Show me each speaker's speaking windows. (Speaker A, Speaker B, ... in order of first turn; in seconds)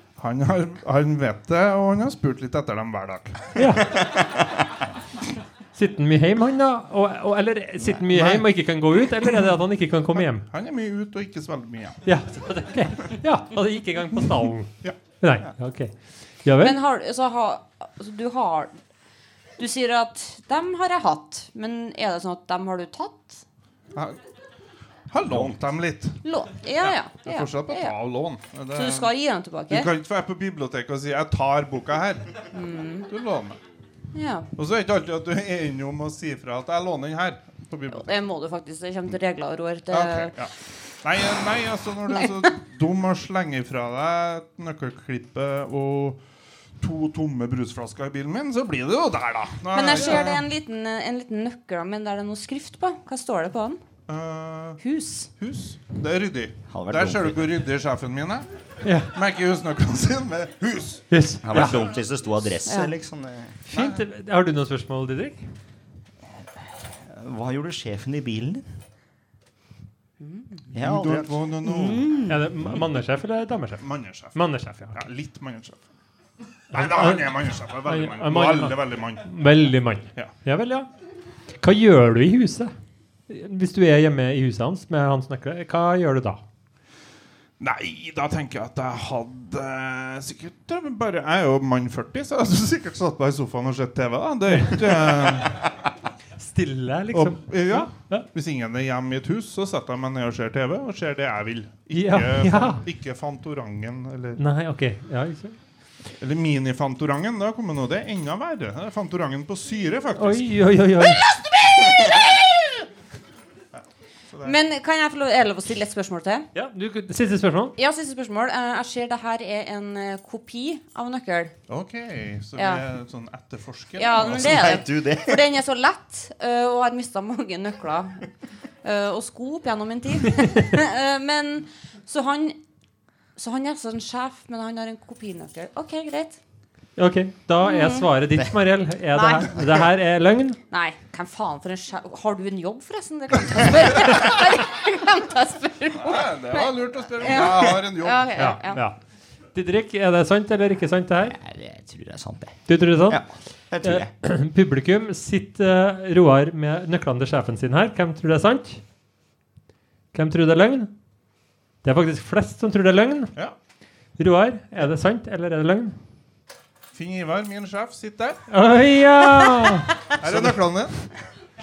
Speaker A: 0.2-3.8, 8.1-8.4, 10.5-12.0, 23.9-24.2, 25.1-26.2, 26.8-29.1, 29.7-32.3, 33.1-33.6, 34.5-38.1, 39.9-46.2, 46.8-50.4, 54.1-54.8, 55.4-58.5, 59.1-61.9, 63.7-64.0, 70.7-72.2, 73.8-74.4, 74.9-75.8, 76.7-79.3, 87.6-95.7, 97.1-104.4, 106.2-110.5, 121.7-124.8, 145.9-148.4, 166.9-168.4, 170.2-170.9
Speaker B: 3.5-4.0, 5.7-10.5, 12.0-15.9, 16.4-16.8, 58.8-59.1, 61.1-61.7, 63.6-65.4, 72.2-75.0, 76.7-80.9, 81.6-82.7, 83.3-86.4, 94.5-94.8, 96.4-98.2, 101.9-102.8, 104.4-105.5, 110.2-111.2, 116.5-117.7, 130.4-130.7, 137.0-140.6, 148.3-149.0, 149.5-151.4, 152.7-153.2, 153.8-158.8, 160.1-160.9, 161.8-163.3, 164.2-166.0, 168.5-169.9
Speaker C: 16.6-18.7, 19.6-23.4, 26.2-27.9, 28.7-29.9, 32.5-33.1, 34.1-34.5, 37.9-40.3, 49.7-53.8, 54.8-55.3, 62.6-62.9, 70.2-70.6, 71.6-72.3, 111.2-112.8, 114.4-116.5, 117.8-121.5, 122.5-122.8, 124.0-128.2, 128.8-132.6, 133.3-136.4, 137.6-138.1, 139.1-139.6, 140.7-148.8
Speaker D: 25.3-25.5, 56.7-57.5, 61.4-63.5, 67.1-68.6, 70.7-71.4, 124.2-125.4, 151.3-154.1